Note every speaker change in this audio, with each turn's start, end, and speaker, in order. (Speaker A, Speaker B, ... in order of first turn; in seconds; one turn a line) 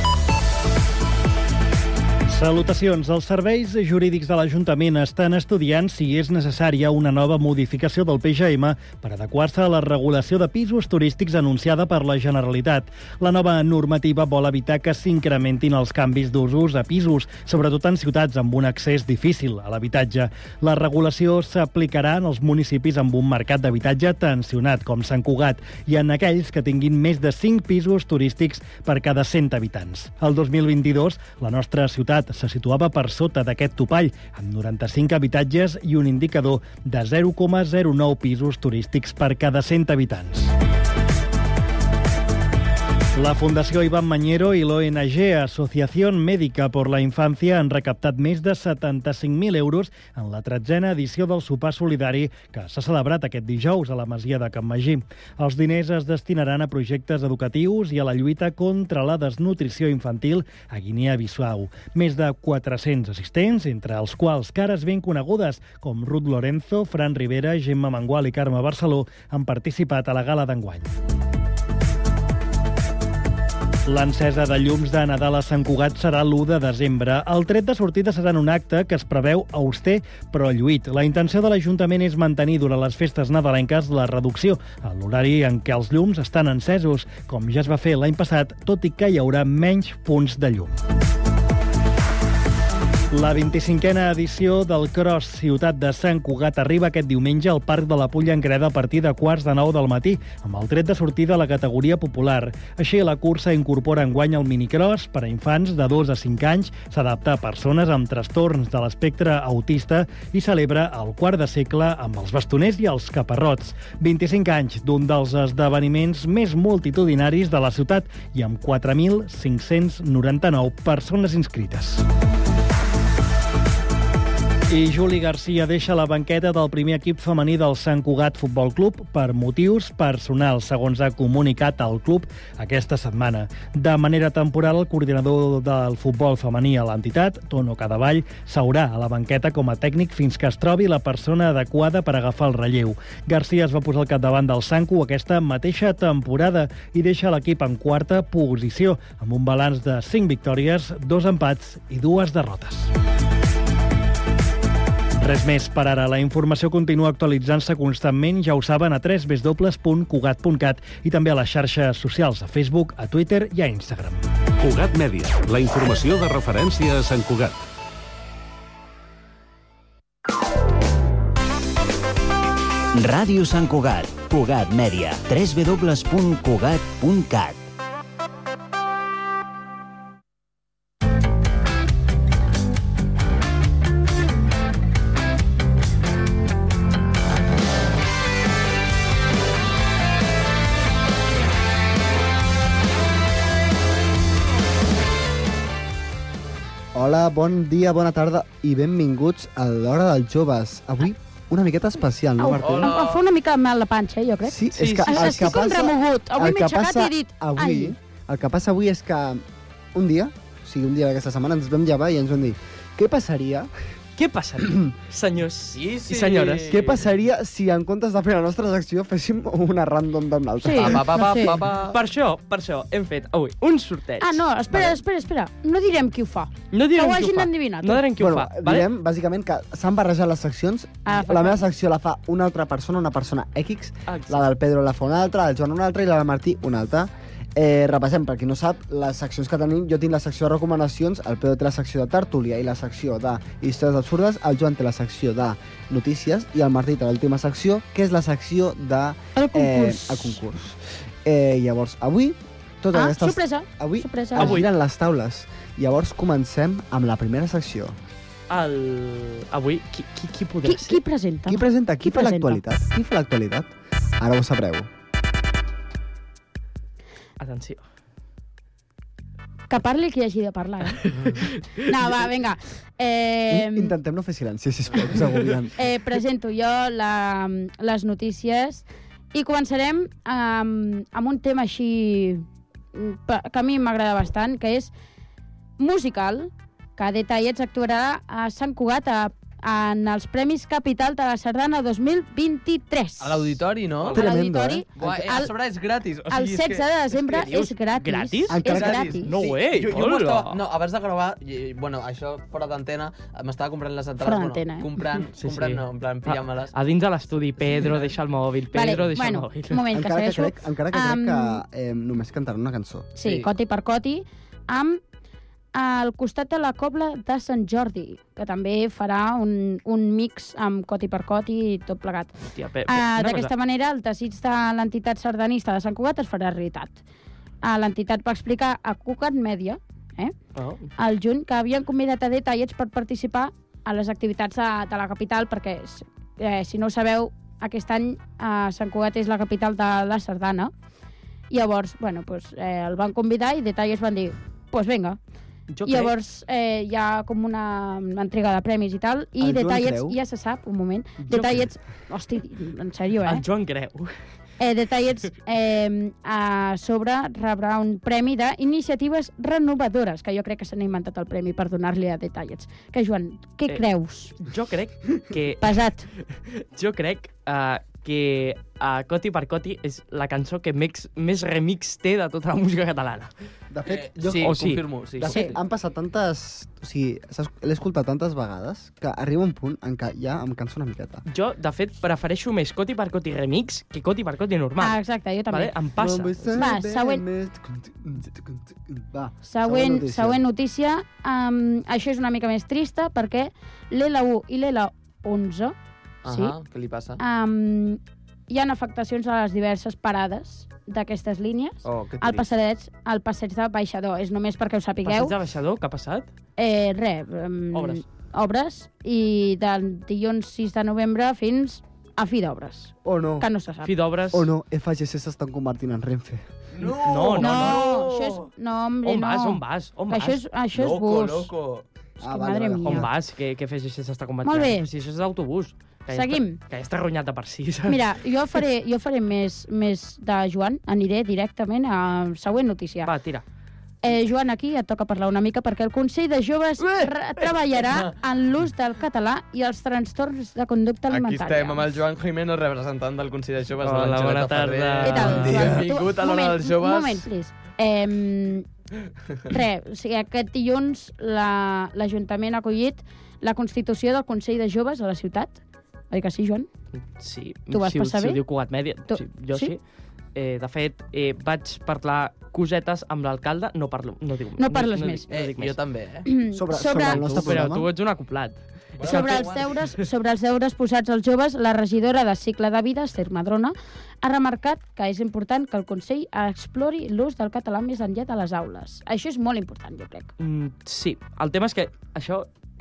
Speaker A: 2.3-40.5
Speaker A: 43.1-70.9
Speaker A: 73.9-90.8
Speaker A: 93.1-122.0
Speaker A: 124.7-152.9
Speaker A: 155.2-164.2
Speaker B: 164.6-167.6
Speaker C: 172.9-177.7
Speaker D: 196.9-202.9
Speaker E: 202.4-207.9
Speaker F: 202.6-203.2
Speaker D: 204.4-213.7
Speaker G: 204.7-205.5
Speaker G: 214.2-216.8
Speaker D: 214.6-214.8
Speaker F: 215.7-217.0
Speaker D: 216.7-221.1
Speaker E: 220.6-221.6
Speaker F: 220.7-222.0
Speaker G: 221.9-224.4
Speaker E: 224.2-228.0
Speaker D: 224.7-225.0
Speaker G: 226.7-228.9
Speaker D: 228.2-257.9
Speaker E: 231.1-231.6
Speaker G: 234.1-234.4
Speaker E: 249.3-250.4
Speaker E: 252.9-254.6
Speaker G: 254.3-254.7
Speaker G: 258.5-261.0
Speaker E: 260.6-262.6
Speaker D: 261.5-264.9
Speaker G: 267.4-267.8
Speaker E: 269.7-271.0
Speaker G: 271.0-271.8
Speaker E: 271.8-273.9
Speaker D: 273.5-275.8
Speaker E: 275.8-284.9
Speaker E: 285.8-293.6
Speaker F: 293.2-294.3
Speaker D: 294.1-294.9
Speaker E: 294.1-295.5
Speaker F: 294.9-297.5
Speaker E: 296.3-299.3
Speaker G: 297.4-300.6
Speaker D: 298.5-299.0
Speaker F: 298.6-306.7
Speaker E: 304.2-304.9
Speaker G: 305.4-309.8
Speaker F: 307.7-308.1
Speaker E: 308.7-311.6
Speaker D: 309.9-313.1
Speaker E: 313.1-315.0
Speaker F: 313.2-313.5
Speaker E: 315.7-327.0
Speaker G: 322.5-323.5
Speaker E: 327.6-330.3
Speaker G: 330.6-330.9
Speaker E: 331.0-340.7
Speaker E: 341.5-345.2
Speaker G: 345.7-346.1
Speaker E: 345.8-353.4
Speaker D: 349.4-350.2
Speaker D: 351.2-351.6
Speaker G: 353.2-354.1
Speaker E: 354.6-364.4
Speaker G: 364.4-373.3
Speaker E: 365.6-366.0
Speaker D: 373.7-381.2
Speaker F: 373.9-375.5
Speaker G: 374.4-374.9
Speaker E: 375.3-375.6
Speaker G: 381.3-386.6
Speaker E: 384.8-385.7
Speaker D: 386.0-390.4
Speaker E: 386.5-387.2
Speaker E: 389.4-395.8
Speaker F: 396.2-397.2
Speaker E: 396.3-396.6
Speaker E: 397.2-405.3
Speaker F: 401.8-402.5
Speaker G: 405.0-406.3
Speaker E: 406.6-413.9
Speaker G: 407.7-408.0
Speaker D: 413.0-413.5
Speaker G: 413.8-414.5
Speaker D: 414.3-416.4
Speaker F: 416.8-418.5
Speaker G: 416.8-417.9
Speaker E: 417.3-421.5
Speaker G: 419.0-420.4
Speaker F: 420.8-421.9
Speaker E: 422.2-423.1
Speaker D: 422.2-423.1
Speaker G: 422.9-428.0
Speaker E: 424.4-424.9
Speaker E: 426.1-426.6
Speaker E: 427.9-433.1
Speaker G: 433.0-433.4
Speaker E: 434.0-441.9
Speaker F: 437.8-438.1
Speaker F: 441.1-447.3
Speaker G: 443.8-445.8
Speaker E: 445.0-448.6
Speaker E: 449.5-455.6
Speaker E: 456.1-456.7
Speaker G: 457.1-459.8
Speaker E: 457.7-458.4
Speaker E: 459.1-459.8
Speaker G: 460.3-465.8
Speaker E: 464.6-465.2
Speaker F: 465.3-466.3
Speaker E: 466.2-467.6
Speaker D: 466.5-467.9
Speaker G: 466.8-469.6
Speaker F: 469.0-469.8
Speaker E: 469.0-480.3
Speaker G: 480.4-482.5